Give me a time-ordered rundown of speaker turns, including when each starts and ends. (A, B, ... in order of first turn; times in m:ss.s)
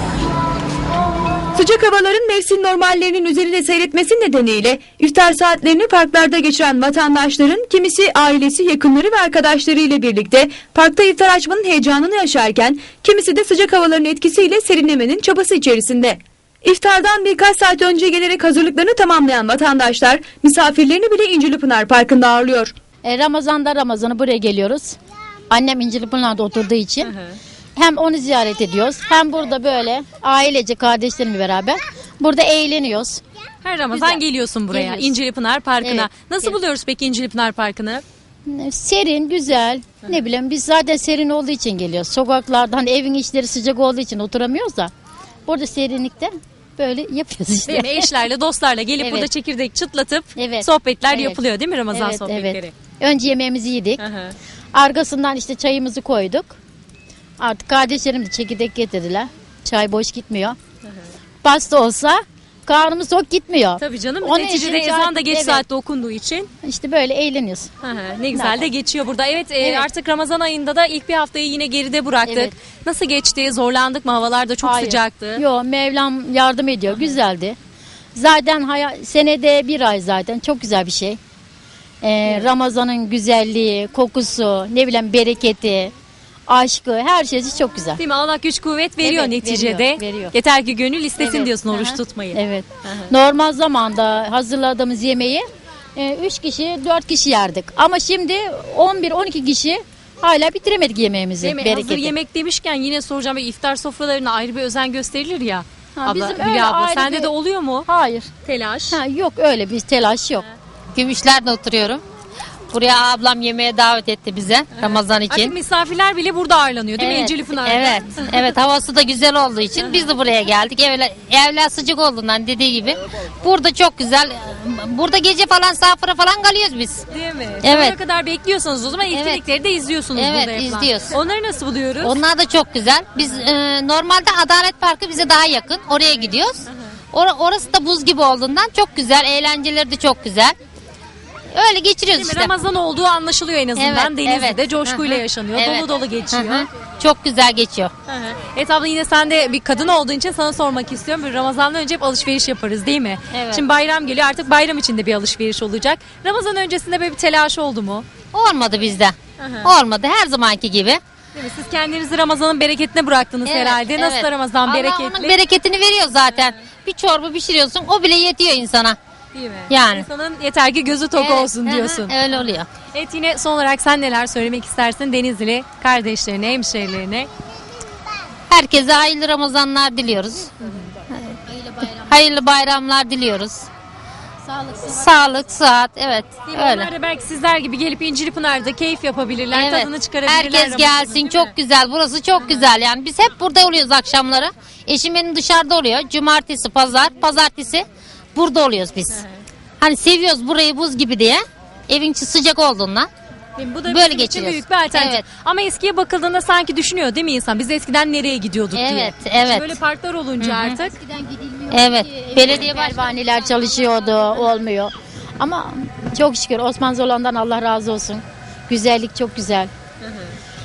0:01.6-0:22.7 A
0:23.0-0:25.0 B
0:25.5-0:27.1 B
0:27.0-0:27.4 C
0:27.8-0:33.2 B
0:33.6-0:38.0 C
0:33.9-0:35.1 B
0:35.8-0:36.5 B
0:38.5-0:44.9 B
0:45.5-0:48.1 B
0:47.7-0:52.7 C
0:49.0-0:49.3 B
0:50.4-0:54.0 B
0:54.0-0:54.4 C
0:54.7-0:56.6 B
0:57.4-1:00.6 B
1:01.4-1:05.6 B
1:03.8-1:06.5 C
1:06.6-1:07.7 B
1:07.8-1:15.4 C
1:08.3-1:08.7 B
1:09.6-1:09.9 B
1:12.2-1:12.6 B
1:14.6-1:17.6 B
1:18.2-1:21.2 B
1:22.0-1:25.9 B
1:26.5-1:28.0 B
1:28.0-1:33.1 C
1:29.0-1:30.3 B
1:31.2-1:42.1 B
1:41.4-1:47.9 C
1:46.0-1:47.3 B
1:47.8-1:48.3 B
1:48.4-1:49.0 C
1:48.9-1:50.5 B
1:51.0-1:52.0 D
1:52.7-1:55.5 D
1:54.7-1:58.6 C
1:57.0-2:07.0 D
1:59.8-2:00.2 C
2:07.1-2:12.2 C
2:07.6-2:07.9 D
2:09.1-2:09.4 D
2:10.2-2:11.1 D
2:12.0-2:20.5 D
2:16.2-2:16.9 C
2:21.5-2:22.5 D
2:22.2-2:26.7 C
2:23.8-2:27.9 D
2:28.1-2:38.1 C
2:33.3-2:33.6 D
2:38.3-2:41.0 D
2:39.4-2:39.7 C
2:41.4-2:45.4 C
2:43.5-2:49.0 D
2:46.3-2:46.6 C
2:49.3-2:52.4 C
2:49.7-2:50.0 D
2:51.2-2:52.7 D
2:52.9-2:57.3 C
2:58.5-3:00.5 D
3:01.6-3:01.9 B
3:02.0-3:03.7 D
3:04.8-3:06.9 D
3:06.4-3:11.5 C
3:09.5-3:19.2 D
3:12.4-3:12.7 C
3:19.8-3:23.1 D
3:23.6-3:31.0 C
3:23.9-3:25.2 D
3:28.7-3:29.8 D
3:30.4-3:30.8 D
3:30.8-3:39.7 B
3:31.7-3:33.2 D
3:40.0-3:40.3 C